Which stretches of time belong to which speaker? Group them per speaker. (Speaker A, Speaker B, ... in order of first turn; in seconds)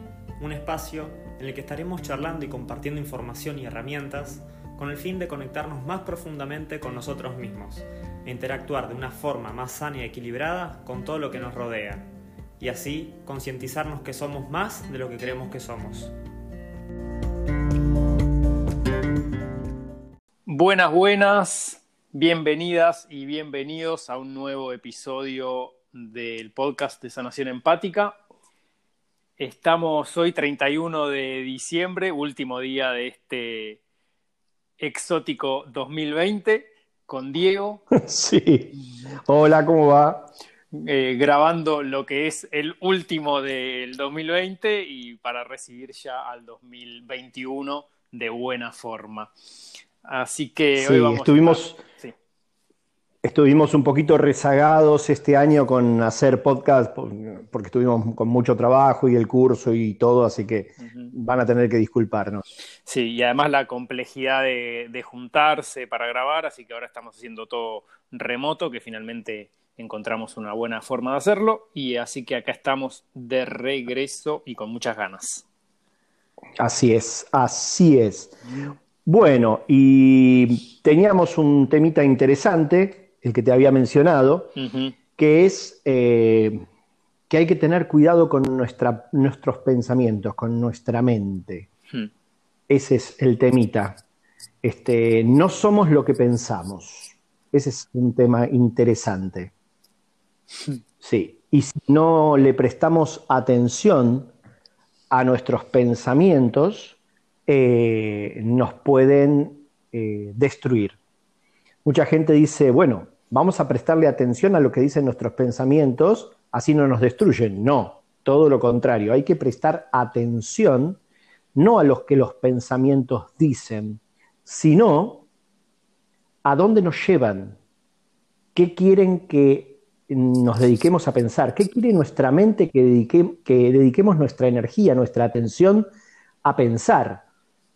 Speaker A: 0.4-12.1, 12.6-16.1
Speaker B: 20.4-28.2, 29.4-33.8, 34.8-37.8, 40.7-49.3, 50.0-52.1, 60.8-61.1, 62.9-75.5, 84.6-84.9
Speaker C: 37.9-38.7, 39.2-40.3, 50.8-51.8, 53.2-62.4, 76.6-78.4, 79.0-84.6, 85.2-86.6, 87.3-91.7, 92.7-94.0, 94.6-99.5, 101.0-104.3, 105.1-111.0, 111.8-121.0, 121.5-125.2, 126.4-127.6, 128.5-135.9, 136.4-137.2